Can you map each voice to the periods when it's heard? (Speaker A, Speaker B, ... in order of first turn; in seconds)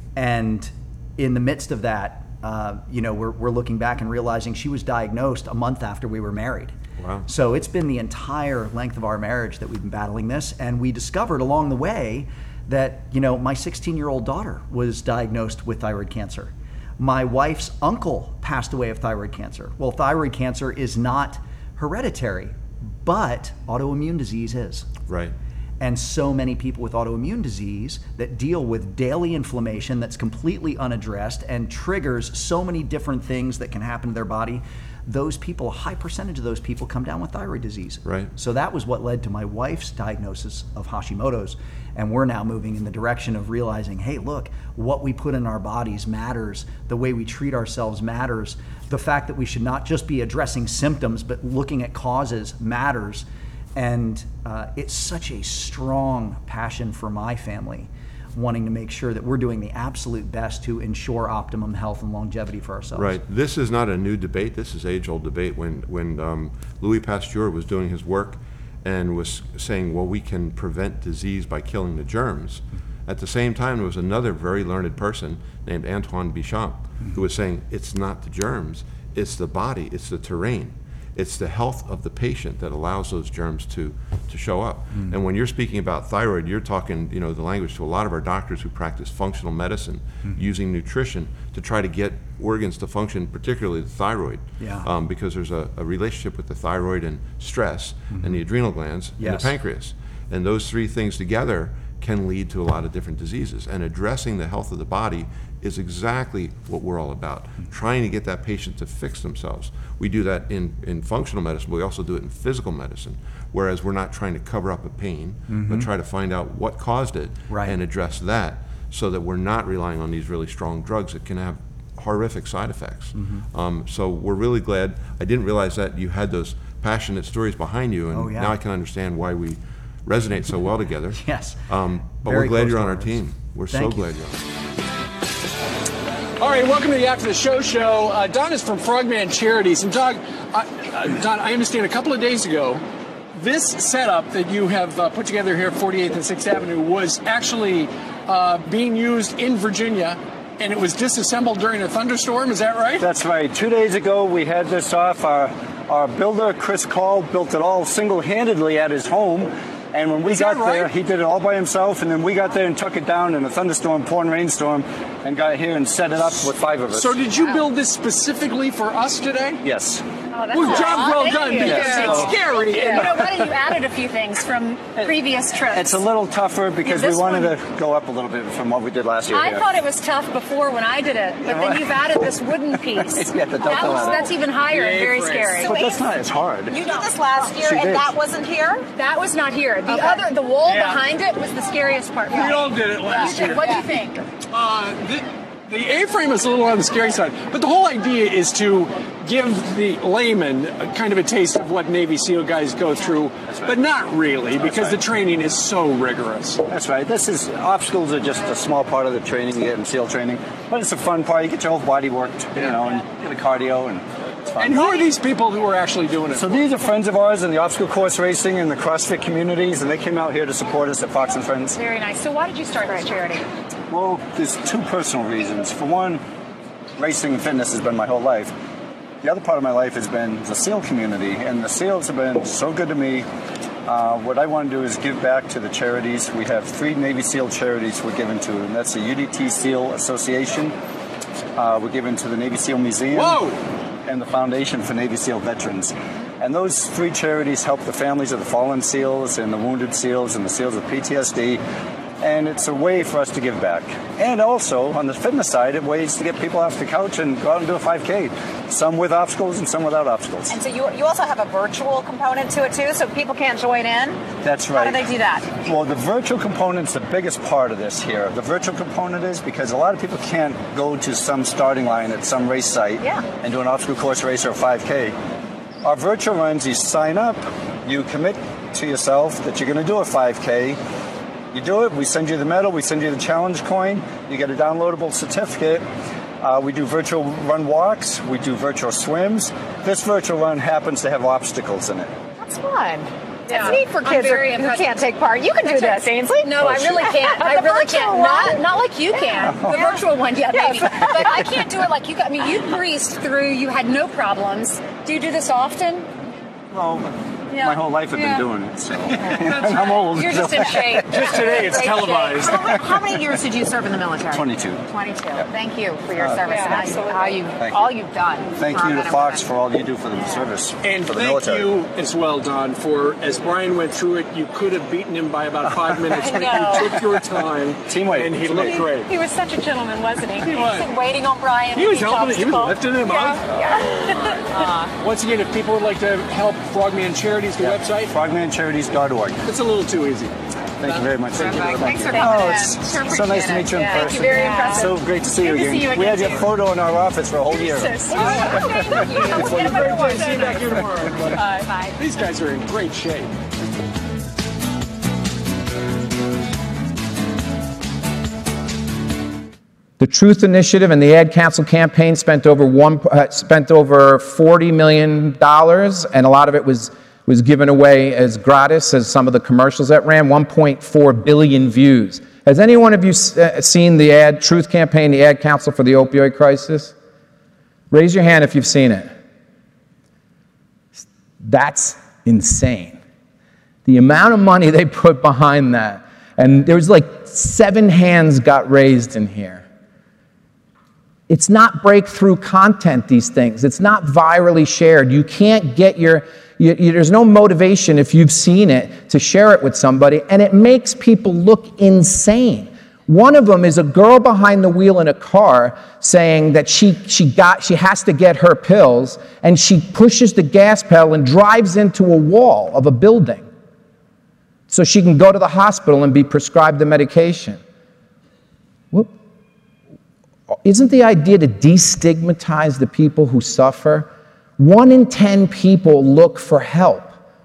Speaker A: 0.1-6.7, 7.3-24.9, 25.8-63.2, 94.6-94.9, 98.1-98.4, 99.2-99.6, 115.5-115.9, 117.5-117.8, 123.1-123.5, 128.1-128.6, 131.1-131.6, 132.1-134.1
Speaker B: 7.0-7.3, 25.1-25.3, 38.0-38.3, 62.9-134.5
Speaker C: 136.4-142.8, 143.3-153.0, 160.2-160.9, 167.0-169.6, 170.5-173.3, 184.2-185.6, 190.6-191.0, 192.3-193.7, 194.4-206.6, 214.6-216.6, 243.1-243.6, 309.4-309.8, 311.1-312.5, 320.8-329.1, 330.4-330.9, 331.7-334.3, 335.0-338.1, 339.4-341.6, 348.1-351.4, 351.9-353.3
Speaker D: 153.0-167.3, 169.6-170.0, 171.6-172.3, 175.7-179.7, 181.4-184.3, 185.6-186.8, 187.5-188.2, 203.4-203.8, 204.5-205.0, 206.7-214.8, 216.3-221.8, 223.9-226.2, 227.0-228.5, 229.2-233.3, 233.8-240.7, 241.6-243.5, 244.0-251.6, 252.2-260.6, 264.4-275.1, 275.8-280.8, 281.5-285.8, 286.4-292.1, 296.6-296.9, 299.4-300.1, 300.7-301.8, 306.7-311.7, 312.5-313.2, 314.3-315.5, 316.1-317.0, 317.5-318.0, 318.5-321.8, 325.8-327.2, 327.8-328.9, 337.6-339.4, 340.8-349.3
Speaker E: 170.3-176.0, 176.8-177.6, 179.3-185.7, 188.9-194.1, 214.8-215.1, 221.8-223.4, 293.5-306.1, 307.6-308.4, 309.7-312.3, 316.4-317.5, 328.6-333.4, 344.2-344.9
Speaker F: 185.5-186.1, 186.7-188.9, 189.9-190.3, 193.1-194.2, 260.5-265.6, 292.4-301.6, 312.1-319.5, 320.1-320.5, 326.2-326.9, 333.5-333.8, 334.4-334.9, 341.5-346.6, 347.4-351.9
Speaker G: 360.0-376.9, 377.9-379.1, 380.9-383.0, 383.9-389.6, 391.3-413.5, 414.7-417.6, 420.6-427.1